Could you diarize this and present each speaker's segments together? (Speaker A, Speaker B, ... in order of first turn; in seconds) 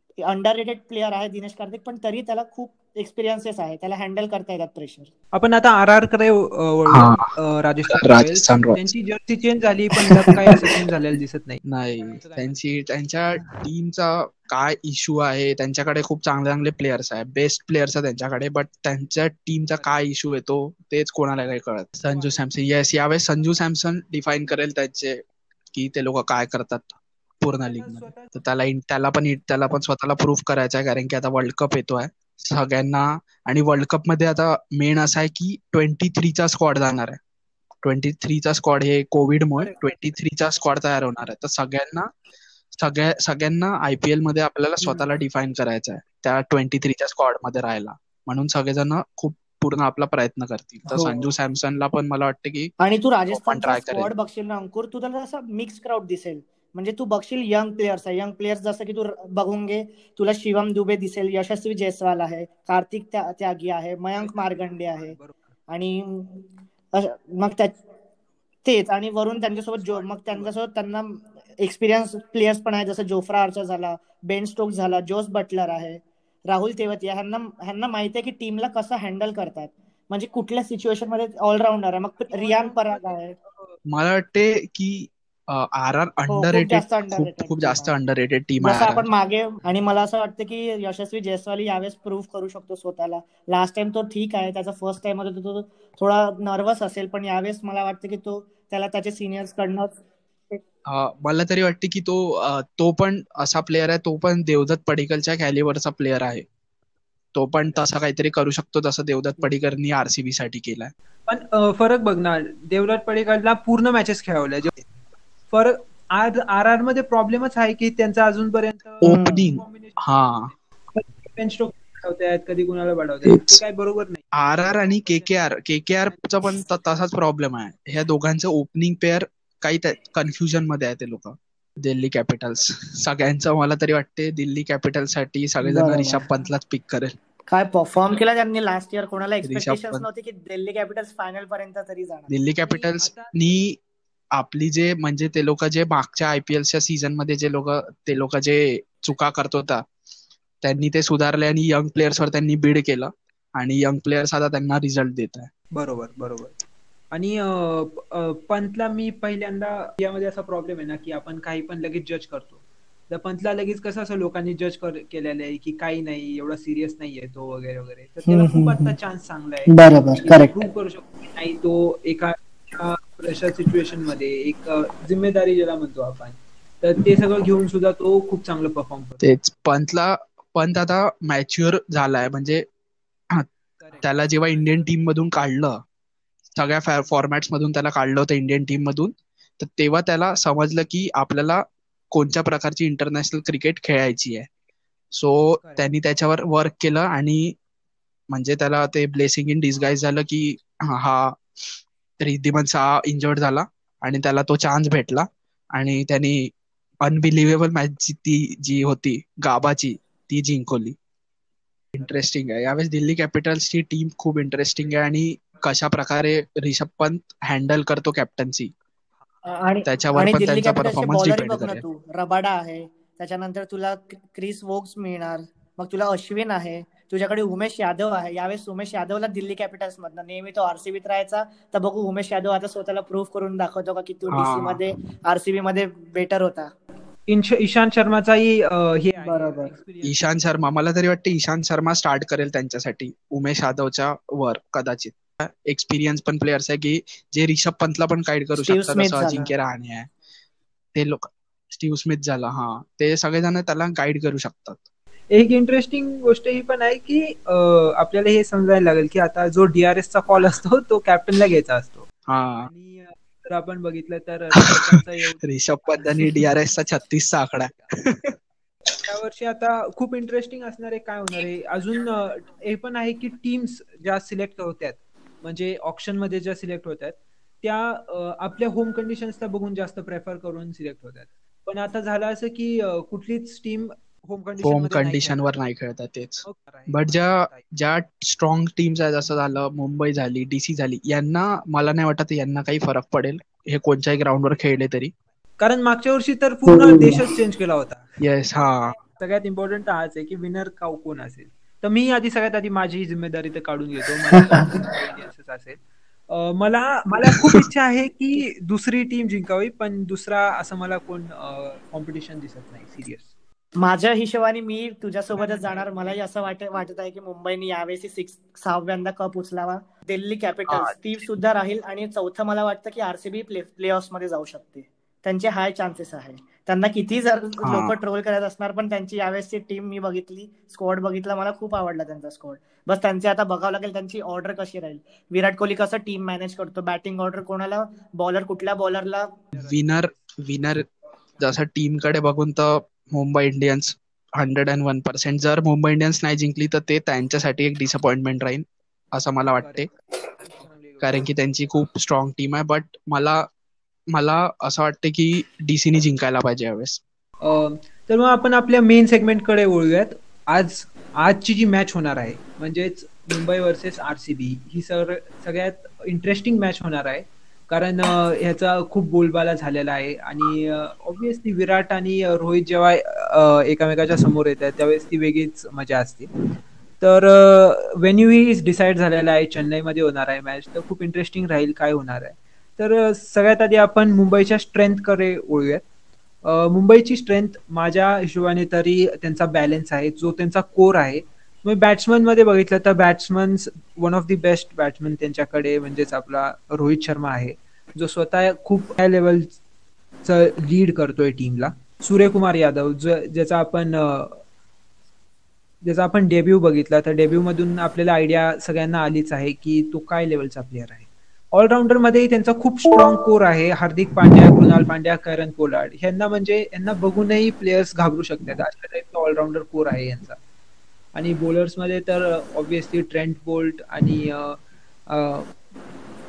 Speaker A: 0.2-5.1, 50.9-51.2, 52.8-65.2, 65.7-67.8, 68.6-83.4, 86.3-88.0, 88.6-100.0, 119.0-119.5, 135.6-136.3, 137.5-142.3, 168.3-169.0, 169.7-170.6, 219.4-236.7, 239.2-239.7, 248.6-249.5, 296.7-297.2, 304.4-304.8, 313.8-339.4
Speaker B: 5.3-12.7, 13.3-13.6, 19.7-20.1, 22.0-23.7, 27.5-28.4, 39.6-41.2, 64.2-65.5, 69.5-70.5, 82.2-83.8, 111.3-114.8, 115.5-125.4, 126.0-126.5, 142.6-143.6, 155.7-156.6, 157.1-179.3, 183.8-184.9, 195.6-195.9, 237.3-240.6, 255.3-262.1, 262.6-267.9, 269.1-285.5, 286.4-287.7, 295.6-313.3, 315.3-316.8, 339.5-340.3, 349.6-351.2, 357.4-376.3, 377.0-385.9, 386.4-399.6, 400.2-404.4, 405.8-420.4, 421.1-425.5
Speaker C: 6.9-7.3, 7.9-8.9, 10.1-10.7, 11.6-37.2, 37.8-42.1, 42.7-52.7, 53.3-54.1, 83.9-89.1, 100.9-106.5, 107.3-110.9, 119.0-120.5, 123.2-123.6, 124.3-137.1, 139.4-140.1, 142.3-143.8, 144.3-149.8, 150.6-155.5, 179.2-182.6, 184.0-185.8, 186.5-194.5, 195.1-197.6, 198.3-201.4, 202.2-206.5, 207.0-211.0, 211.9-218.7, 219.9-221.8, 234.3-234.8, 240.0-250.1, 250.9-254.8, 262.3-262.7, 265.4-268.4, 284.6-295.1, 298.2-299.0, 320.7-320.9, 327.6-327.9, 339.6-340.9, 341.4-349.9, 351.0-353.5, 354.1-357.0